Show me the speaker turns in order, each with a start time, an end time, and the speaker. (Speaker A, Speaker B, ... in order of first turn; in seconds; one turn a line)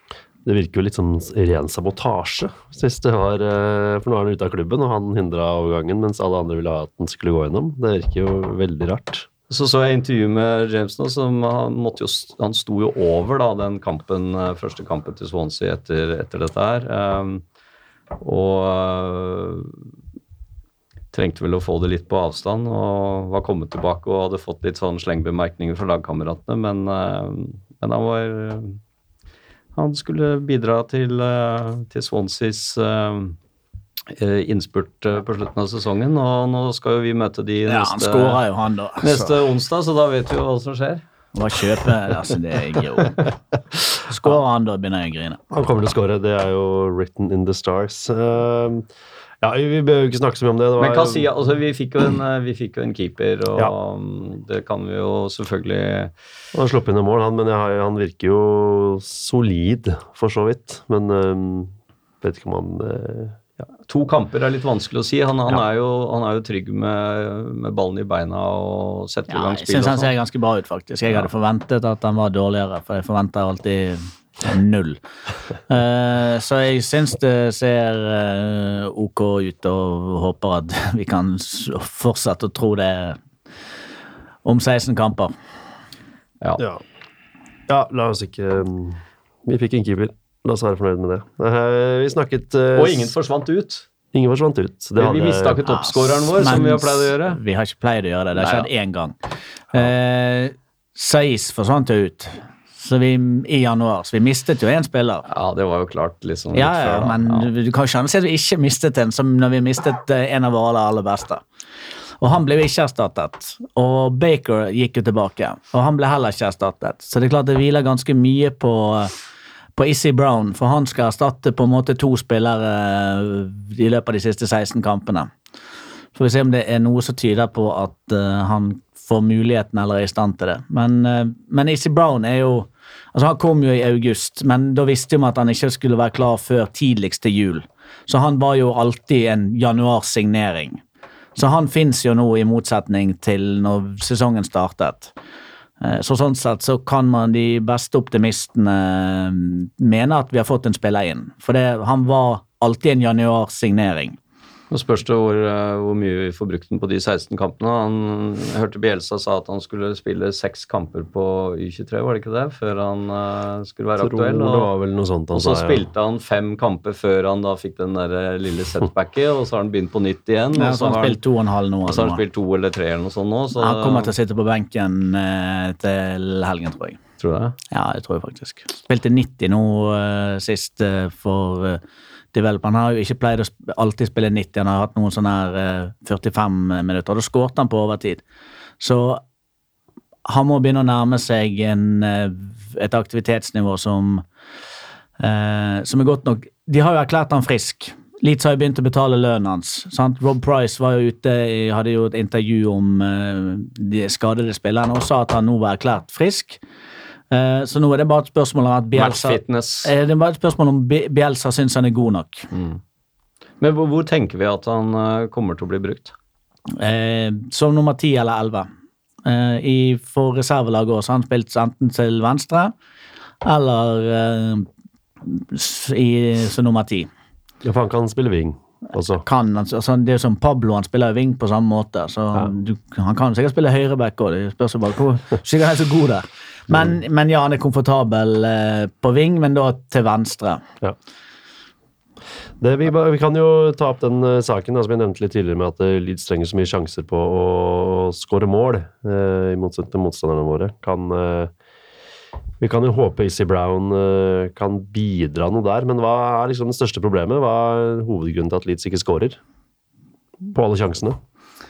Speaker A: 0.4-9.3
Speaker B: 9.5-17.4
Speaker B: 18.2-19.7
Speaker B: 21.1-28.8
Speaker B: 29.7-33.4
Speaker B: 34.1-38.4
Speaker C: 37.7-39.4
Speaker B: 39.0-41.0
Speaker C: 41.3-43.2
Speaker C: 44.1-45.4
Speaker A: 45.5-48.9
Speaker A: 49.4-51.3
Speaker B: 50.8-56.1
Speaker A: 56.5-63.4
Speaker B: 63.8-70.1
Speaker C: 69.3-75.0
Speaker C: 75.7-83.2
Speaker C: 84.4-85.3
Speaker A: 87.7-93.1
Speaker B: 92.7-93.8
Speaker A: 94.1-95.6
Speaker B: 95.0-97.4
Speaker C: 95.7-99.1
Speaker B: 98.3-98.7
Speaker C: 99.7-105.2
Speaker B: 105.3-107.5
Speaker C: 106.5-111.4
Speaker C: 112.2-119.2
Speaker C: 119.8-125.3
Speaker C: 126.1-140.8
Speaker C: 141.3-145.1
Speaker C: 145.8-154.2
Speaker B: 154.7-164.7
Speaker A: 164.0-165.8
Speaker B: 165.3-171.2
Speaker C: 170.5-172.2
Speaker B: 171.8-174.1
Speaker C: 173.6-177.0
Speaker B: 177.2-177.6
Speaker C: 177.7-181.8
Speaker C: 182.3-188.2
Speaker C: 188.8-189.2
Speaker C: 190.2-194.2
Speaker C: 195.2-206.6
Speaker C: 207.3-212.5
Speaker B: 208.9-209.9
Speaker B: 212.5-212.8
Speaker B: 213.6-216.1
Speaker C: 216.8-218.7
Speaker C: 219.2-222.7
Speaker C: 223.4-224.7
Speaker C: 225.2-227.1
Speaker A: 227.6-229.2
Speaker C: 229.2-240.6
Speaker A: 242.6-251.5
Speaker A: 252.6-259.4
Speaker A: 260.5-261.2